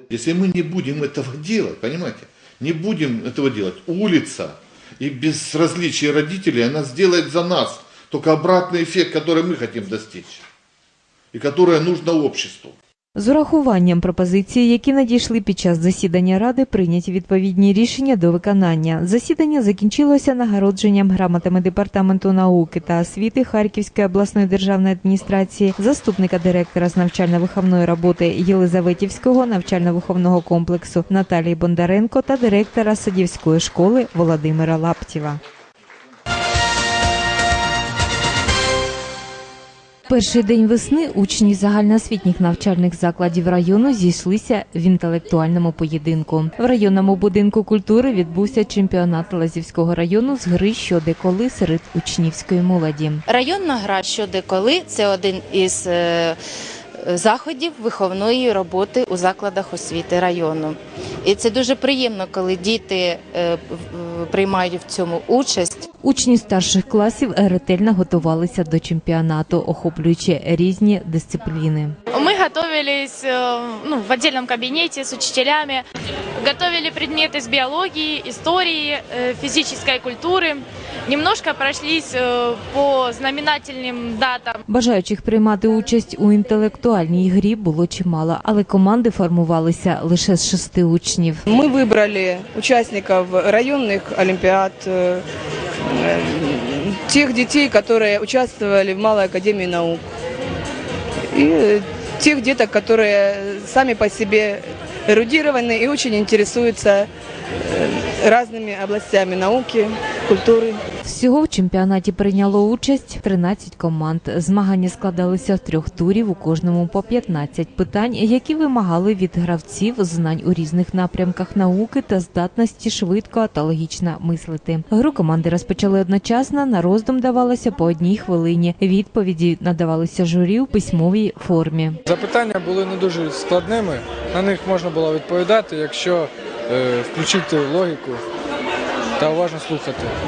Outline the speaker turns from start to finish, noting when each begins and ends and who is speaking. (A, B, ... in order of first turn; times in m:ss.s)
0:00.1-0:10.4 A
0:11.3-0:12.8 A
0:13.2-0:35.4 B
0:40.1-0:53.2 B
0:53.3-0:56.4 C
0:57.0-1:05.9 C
1:06.0-1:12.0 B
1:12.1-1:15.8 D
1:16.4-1:24.6 D
1:24.7-1:31.4 B
1:31.5-1:35.2 E
1:35.9-1:40.0 E
1:41.3-1:47.1 E
1:47.6-1:50.8 E
1:51.0-2:12.0 B
2:12.1-2:18.2 F
2:19.2-2:20.2 F